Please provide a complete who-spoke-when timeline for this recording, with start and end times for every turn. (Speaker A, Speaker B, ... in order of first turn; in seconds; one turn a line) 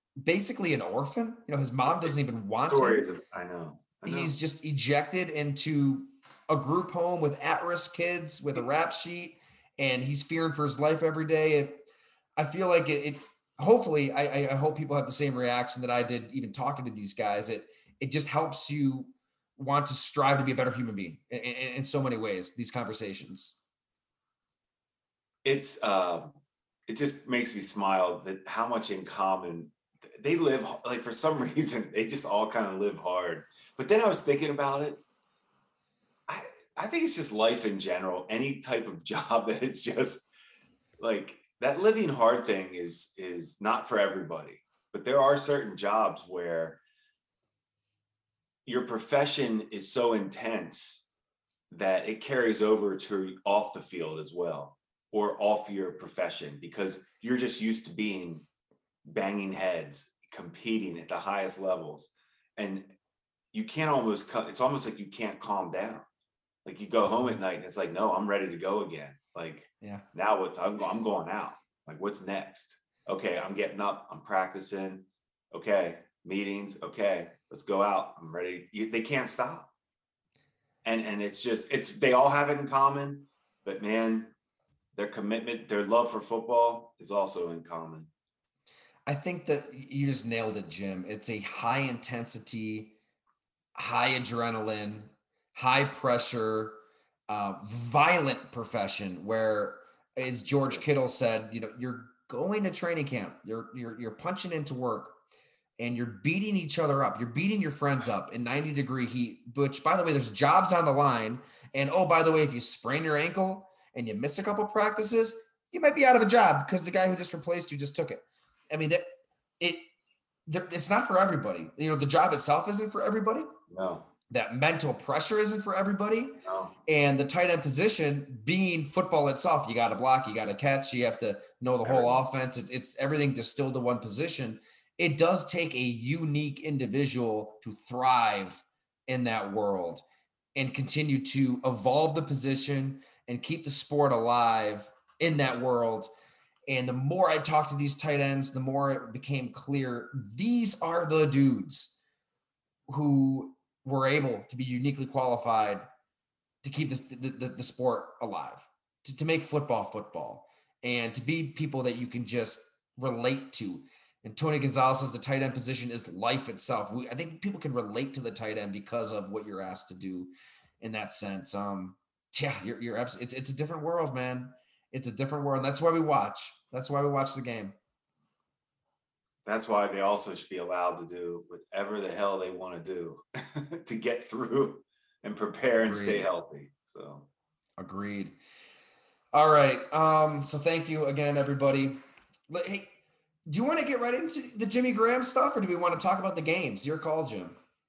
Speaker A: 0.2-3.1
Speaker B: 1.9-4.3
Speaker A: 4.0-23.6
Speaker B: 25.4-26.3
Speaker B: 26.9-35.0
Speaker B: 36.3-40.3
Speaker B: 41.0-46.8
Speaker B: 48.6-51.0
Speaker B: 51.7-58.5
Speaker B: 59.0-62.9
Speaker B: 63.5-66.0
Speaker B: 66.6-79.7
Speaker B: 80.8-84.3
Speaker B: 84.9-88.1
Speaker A: 89.0-93.0
Speaker A: 93.7-105.2
Speaker A: 105.8-119.0
Speaker A: 119.6-119.8
Speaker A: 120.5-123.5
Speaker B: 123.7-124.1
Speaker A: 124.3-140.0
Speaker B: 126.4-126.7
Speaker B: 131.8-132.2
Speaker A: 140.5-146.1
Speaker A: 146.7-151.9
Speaker A: 152.9-155.8
Speaker A: 156.6-177.7
Speaker B: 179.4-187.3
Speaker A: 185.8-186.3
Speaker A: 187.8-188.3
Speaker A: 189.3-191.9
Speaker A: 192.5-192.9
Speaker A: 193.5-197.6